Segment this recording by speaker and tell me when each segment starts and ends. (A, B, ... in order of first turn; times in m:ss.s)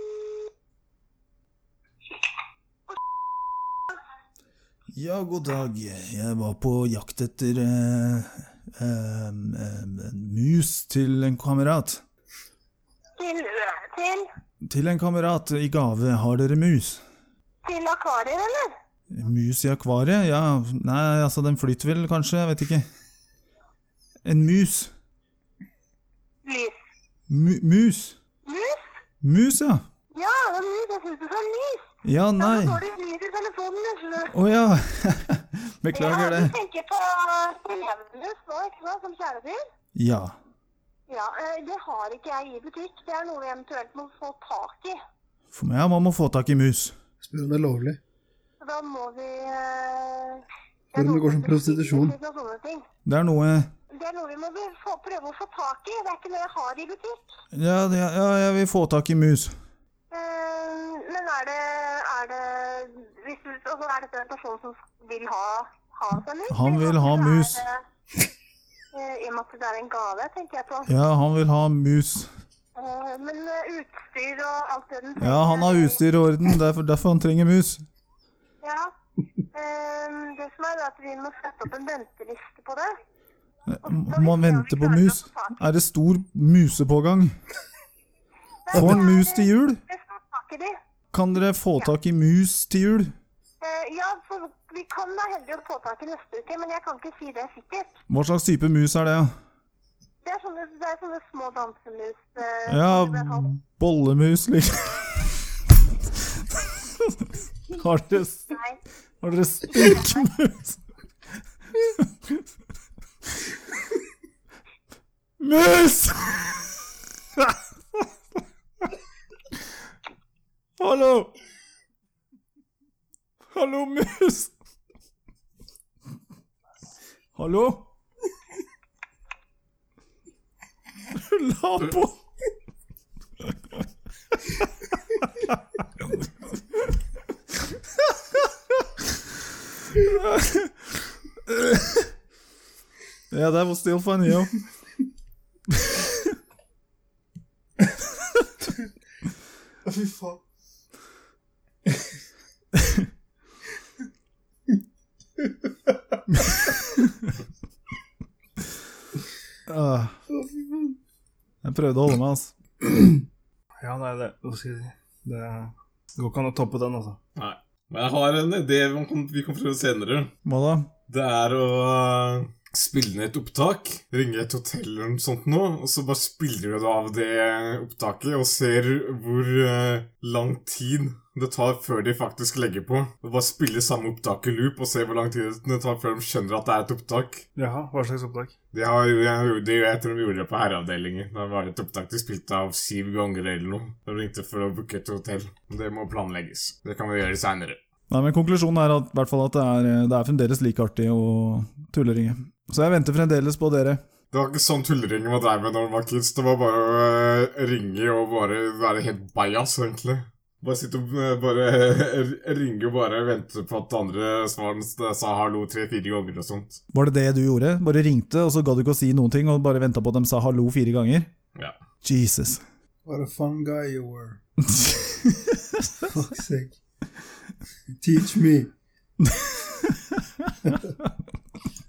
0:04.9-0:12.0 A
0:13.2-0:14.3 B
0:14.6-0:17.0 A
0:17.6-0:18.7 B
0:19.1-0:22.9 A
0:24.2-0:24.9 A
0:26.4-0:26.7 B
0:27.3-0:28.2 A
0:28.4-0:28.8 B
0:29.2-0:29.8 A
0:30.1-0:34.3 B
0:32.0-0:32.8 A
0:34.3-0:36.5 A
0:35.9-0:39.6 B
0:39.9-0:40.4 A
0:41.1-0:45.0 B
0:45.5-0:46.9 A
0:47.2-0:48.0 C
0:48.6-0:52.8 B
0:50.9-0:52.1 C
0:53.0-0:53.7 A
0:54.0-0:57.2 B
0:57.5-0:59.6 A
1:00.1-1:07.8 B
1:06.5-1:07.6 A
1:08.9-1:10.9 B
1:10.9-1:12.3 A
1:12.8-1:16.0 B
1:15.2-1:17.8 A
1:18.6-1:18.9 B
1:19.5-1:22.9 B
1:23.7-1:27.4 A
1:23.9-1:25.6 B
1:28.6-1:30.8 B
1:28.7-1:29.8 A
1:31.1-1:33.1 A
1:33.6-1:37.9 B
1:38.1-1:39.3 A
1:40.2-1:43.5 B
1:42.7-1:45.4 A
1:46.5-1:48.6 A
1:48.5-1:48.8 B
1:49.2-1:50.8 A
1:49.8-1:50.1 B
1:52.0-1:52.4 A
1:55.4-1:56.7 A
1:57.4-1:58.0 A
2:00.8-2:01.3 A
2:03.5-2:04.5 A
2:07.4-2:07.9 A
2:11.1-2:12.2 A
2:15.2-2:15.6 A
2:19.9-2:20.9 A
2:21.4-2:22.1 A
2:23.3-2:24.6 A
2:25.7-2:26.3 A
2:29.8-2:30.4 C
2:32.7-2:33.1 A
2:37.0-2:37.3 A
2:39.7-2:40.2 A
2:40.5-2:40.9 C
2:41.6-2:42.5 A
2:43.8-2:47.2 C
2:47.4-2:50.3 D
2:50.4-2:50.9 A
2:51.1-3:07.4 D
3:07.6-3:08.5 C
3:08.7-3:17.8 D
3:18.1-3:24.0 A
3:24.3-3:36.8 D
3:36.9-3:41.3 A
3:42.0-3:42.6 A
3:43.1-3:44.4 C
3:44.7-3:45.8 A
3:46.0-3:46.8 C
3:48.0-3:48.7 C
3:49.2-3:50.8 A